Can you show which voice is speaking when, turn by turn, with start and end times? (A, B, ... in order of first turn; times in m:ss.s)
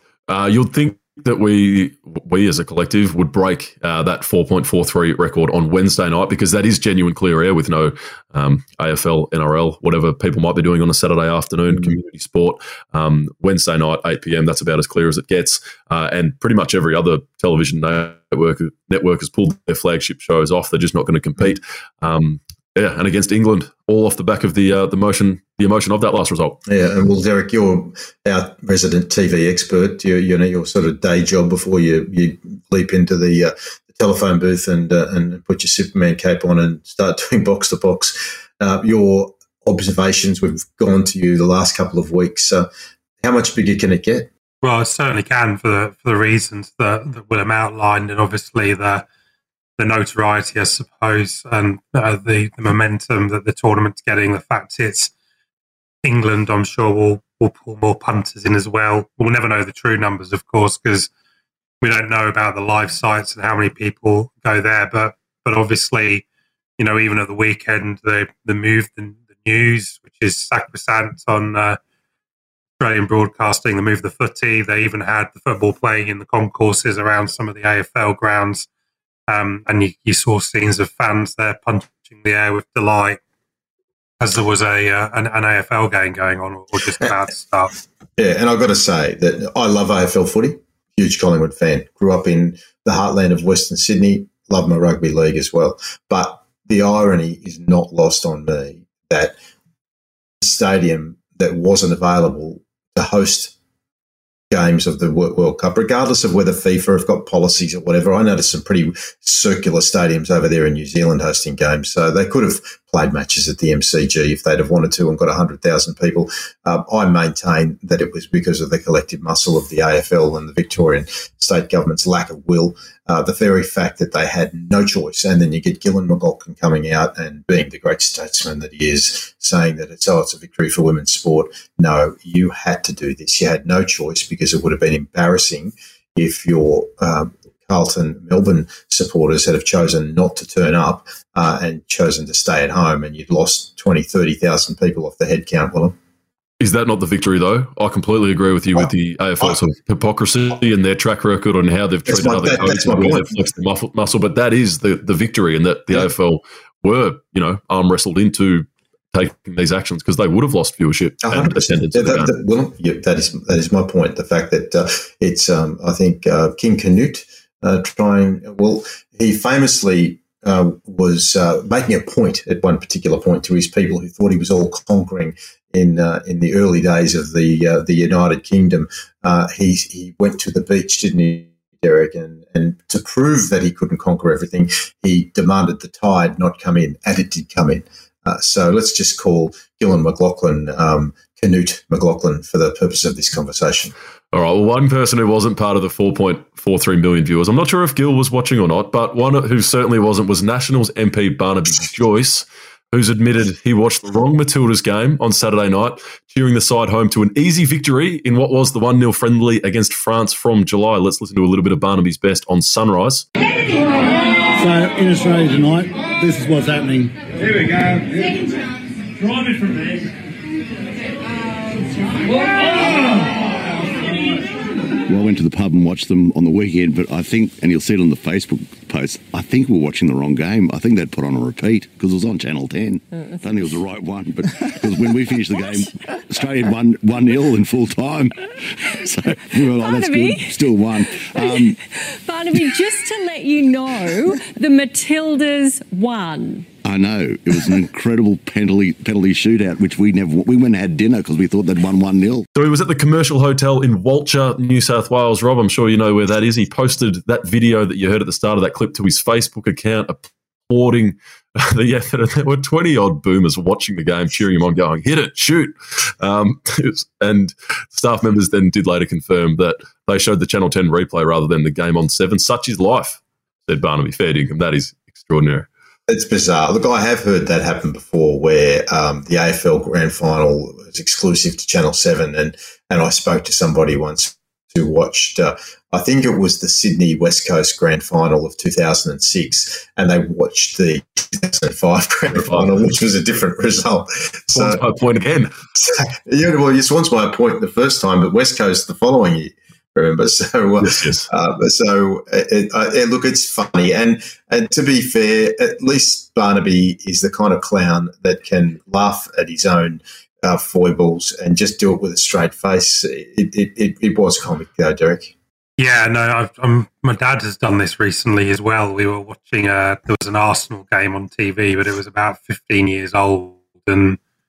0:00.3-0:26.6 A
0:26.7-0:42.7 B
0:43.2-0:44.3 B
0:44.6-0:49.1 C
0:49.8-0:55.1 C
0:56.0-1:01.1 C
1:01.8-1:06.3 C
1:06.8-1:11.8 C
1:12.8-1:18.7 C
1:19.3-1:23.2 C
1:24.2-1:27.7 C
1:28.2-1:39.4 B
1:40.4-1:43.5 B
1:44.5-2:26.0 B
2:26.6-2:42.3 A
2:32.1-2:33.4 B
2:41.2-3:13.9 B
3:14.3-3:33.3 A
3:34.6-3:37.2 D
3:45.1-4:01.8 E
3:59.8-4:00.7 F
4:01.3-4:06.7 F
4:06.8-4:12.5 E
4:12.6-4:35.7 A
4:36.1-4:54.8 B
4:52.3-4:52.7 A
4:54.5-4:55.5 A
4:55.8-5:15.3 B
5:00.8-5:01.3 A
5:15.8-5:24.2 C